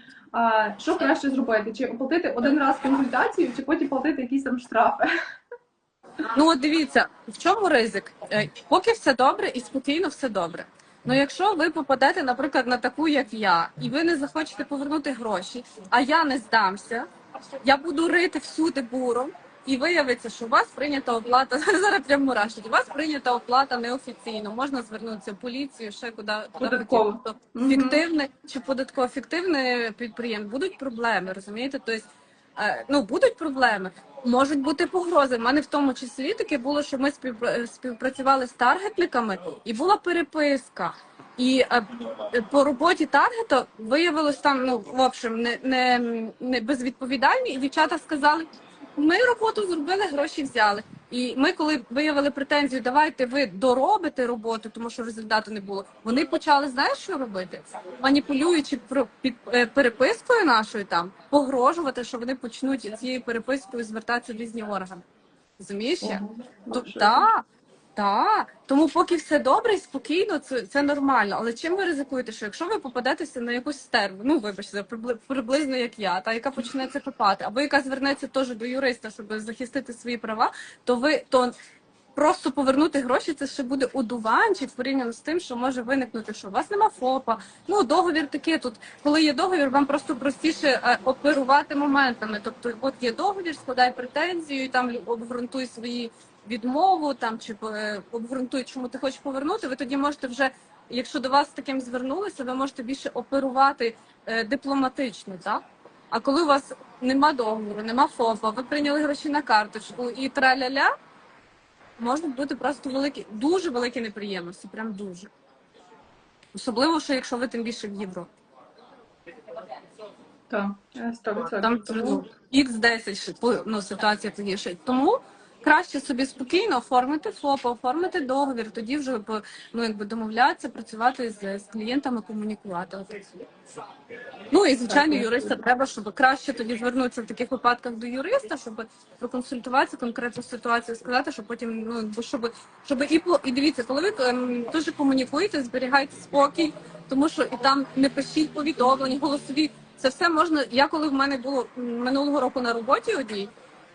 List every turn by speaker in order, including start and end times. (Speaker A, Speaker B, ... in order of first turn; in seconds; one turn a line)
Speaker A: 0.3-5.1
Speaker B: 6.3-17.1
Speaker B: 17.6-65.0
Speaker A: 26.6-28.0
Speaker B: 65.6-67.4
Speaker A: 66.0-67.3
Speaker B: 68.0-81.5
Speaker B: 82.2-105.6
Speaker B: 106.1-110.9
Speaker B: 112.0-115.3
Speaker B: 116.5-118.3
Speaker A: 120.5-122.2
Speaker B: 121.6-133.2
Speaker B: 134.5-153.5
Speaker A: 134.8-135.6